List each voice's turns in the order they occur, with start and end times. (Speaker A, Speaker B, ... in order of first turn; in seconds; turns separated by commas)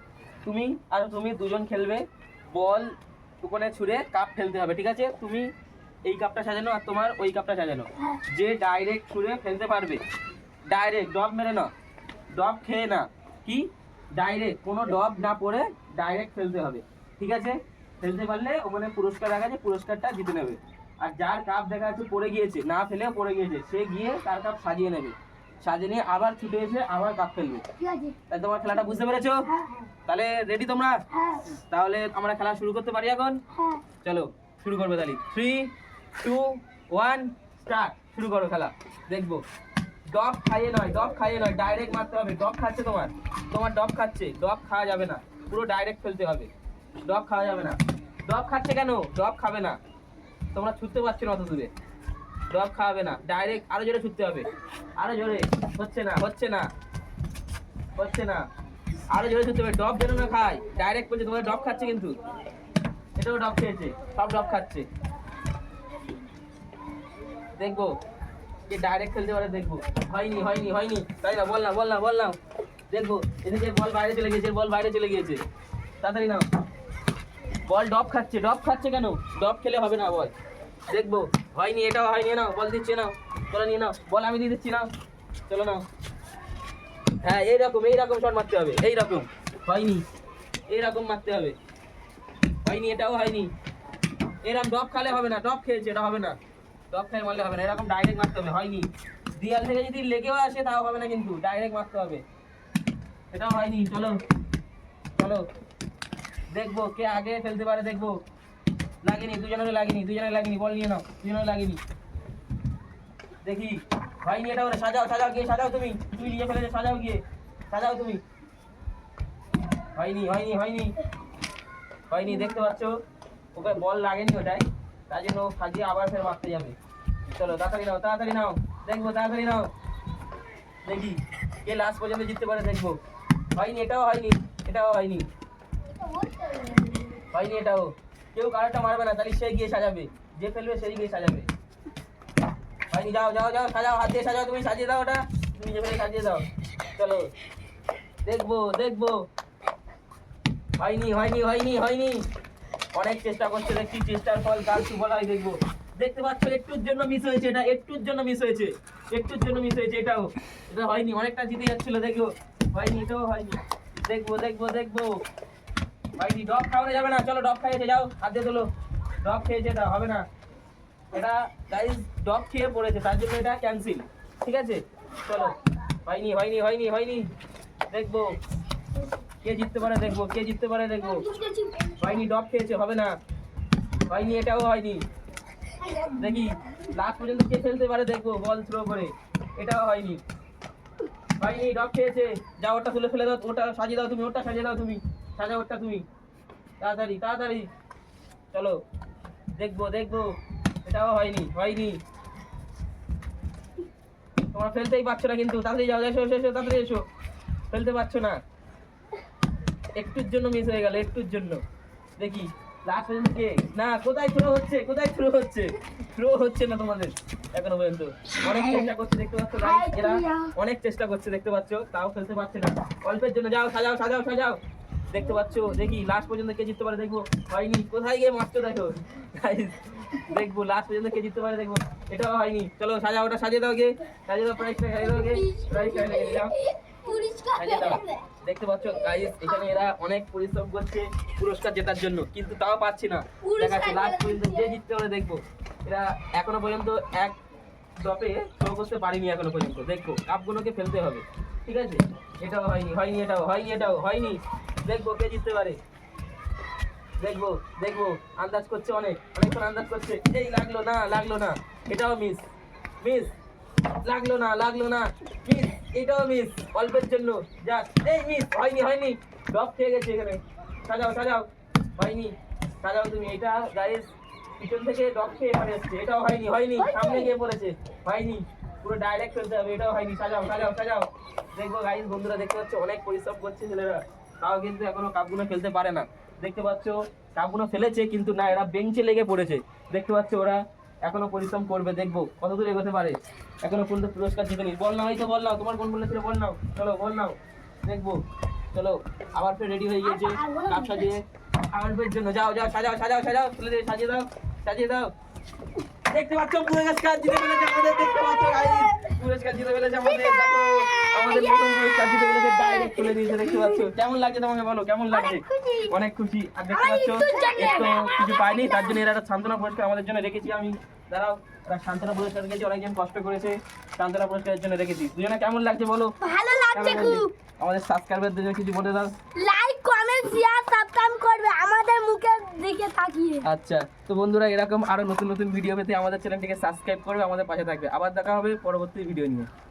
Speaker A: 0.4-5.5, Speaker A: 6.0-10.0, Speaker A: 10.7-11.7, Speaker A: 12.3-27.6, Speaker B: 27.8-28.1, Speaker A: 28.3-29.5, Speaker B: 29.5-29.9, Speaker A: 30.1-31.0, Speaker B: 31.1-31.5, Speaker A: 31.6-33.4, Speaker B: 33.5-33.8, Speaker A: 34.0-39.4, Speaker A: 40.1-46.5, Speaker A: 47.0-49.8, Speaker A: 50.5-51.7, Speaker A: 52.5-56.7, Speaker A: 58.0-58.4, Speaker A: 59.1-62.2, Speaker A: 63.2-64.9, Speaker A: 67.6-67.9, Speaker A: 68.7-72.4, Speaker A: 72.9-75.4, Speaker A: 76.0-76.4, Speaker A: 77.7-80.3, Speaker A: 80.9-84.9, Speaker A: 85.5-85.8, Speaker A: 87.2-90.0, Speaker A: 90.7-91.5, Speaker A: 92.6-93.5, Speaker A: 94.4-96.4, Speaker A: 96.9-102.2, Speaker A: 103.3-104.2, Speaker A: 105.2-105.5, Speaker A: 106.5-108.2, Speaker A: 109.0-111.8, Speaker A: 113.4-118.2, Speaker A: 120.0-121.0, Speaker A: 122.1-123.0, Speaker A: 123.5-126.7, Speaker A: 127.3-129.7, Speaker A: 130.9-133.0, Speaker A: 133.6-135.2, Speaker B: 135.9-137.2, Speaker A: 137.3-141.5, Speaker A: 142.9-147.3, Speaker A: 148.2-149.2, Speaker A: 150.8-152.2, Speaker A: 152.9-165.2, Speaker A: 166.2-168.7, Speaker A: 169.2-170.2, Speaker A: 171.1-177.3, Speaker A: 177.9-178.3, Speaker A: 179.4-181.2, Speaker B: 181.0-182.2, Speaker A: 182.0-183.2, Speaker A: 184.1-185.0, Speaker B: 185.8-186.4, Speaker A: 186.2-190.2, Speaker A: 191.4-196.1, Speaker A: 196.8-197.7, Speaker A: 198.5-198.8, Speaker A: 199.6-202.0, Speaker A: 204.5-207.1, Speaker A: 207.7-208.4, Speaker A: 210.0-211.6, Speaker A: 212.2-224.6, Speaker B: 218.4-218.9, Speaker B: 219.6-220.5, Speaker A: 225.1-236.5, Speaker B: 235.0-238.2, Speaker A: 237.6-247.4, Speaker B: 239.3-239.5, Speaker B: 243.4-244.8, Speaker A: 248.0-255.8, Speaker A: 257.2-262.4, Speaker A: 263.0-263.3, Speaker A: 264.0-298.2, Speaker B: 276.8-277.3, Speaker A: 298.7-305.1, Speaker B: 300.0-301.1, Speaker A: 306.1-326.1, Speaker B: 307.7-309.1, Speaker B: 310.0-313.9, Speaker B: 315.1-315.9, Speaker B: 316.7-319.0, Speaker B: 326.2-327.3, Speaker A: 326.7-329.1, Speaker B: 329.4-333.4, Speaker A: 333.4-339.5